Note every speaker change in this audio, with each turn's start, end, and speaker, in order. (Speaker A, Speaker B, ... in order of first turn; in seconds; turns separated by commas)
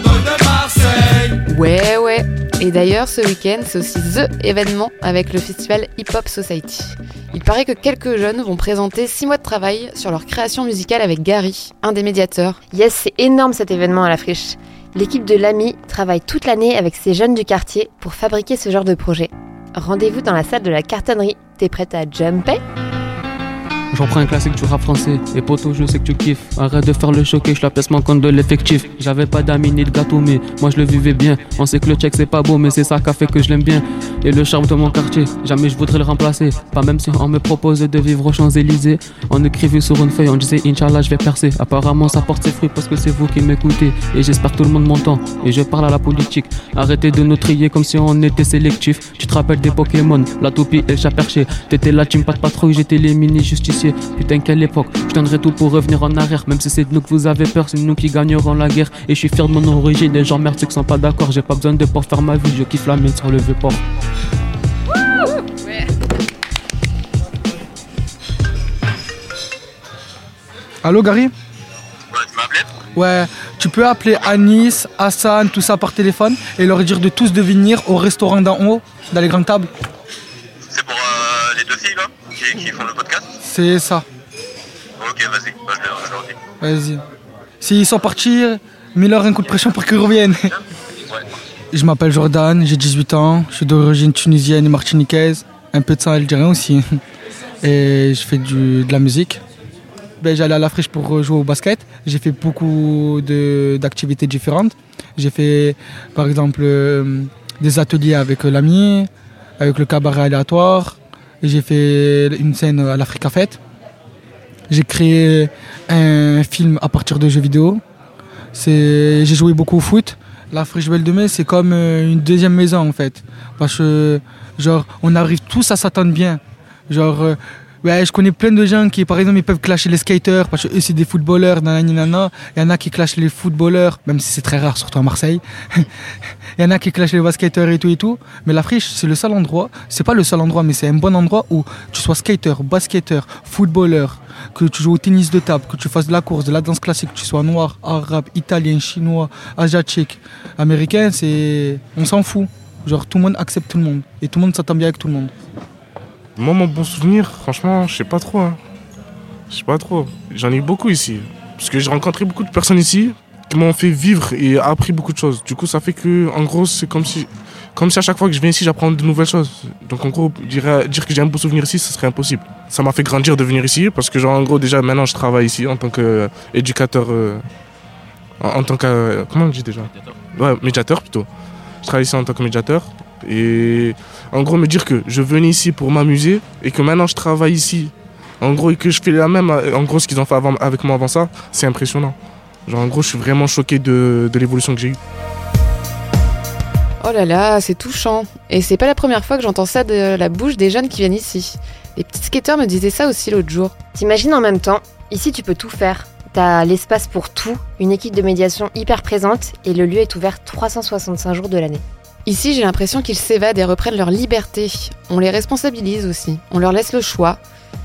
Speaker A: 1.3-12.6, Speaker B: 12.7-22.6, Speaker C: 23.9-63.8, Speaker D: 70.8-71.3, Speaker E: 72.1-72.7, Speaker D: 72.9-79.7, Speaker E: 80.7-83.3, Speaker D: 83.4-84.0, Speaker E: 85.0-86.3, Speaker D: 86.6-87.0, Speaker D: 87.6-90.5, Speaker D: 91.7-97.0, Speaker D: 97.6-99.4, Speaker D: 100.2-109.1, Speaker D: 109.6-113.6, Speaker D: 114.7-117.8, Speaker D: 118.5-135.9, Speaker D: 136.6-155.3, Speaker F: 156.4-158.6, Speaker F: 159.5-177.4, Speaker F: 178.4-181.3, Speaker F: 181.8-192.2, Speaker F: 192.7-195.0, Speaker A: 197.0-203.8, Speaker B: 203.9-211.8, Speaker A: 212.2-217.4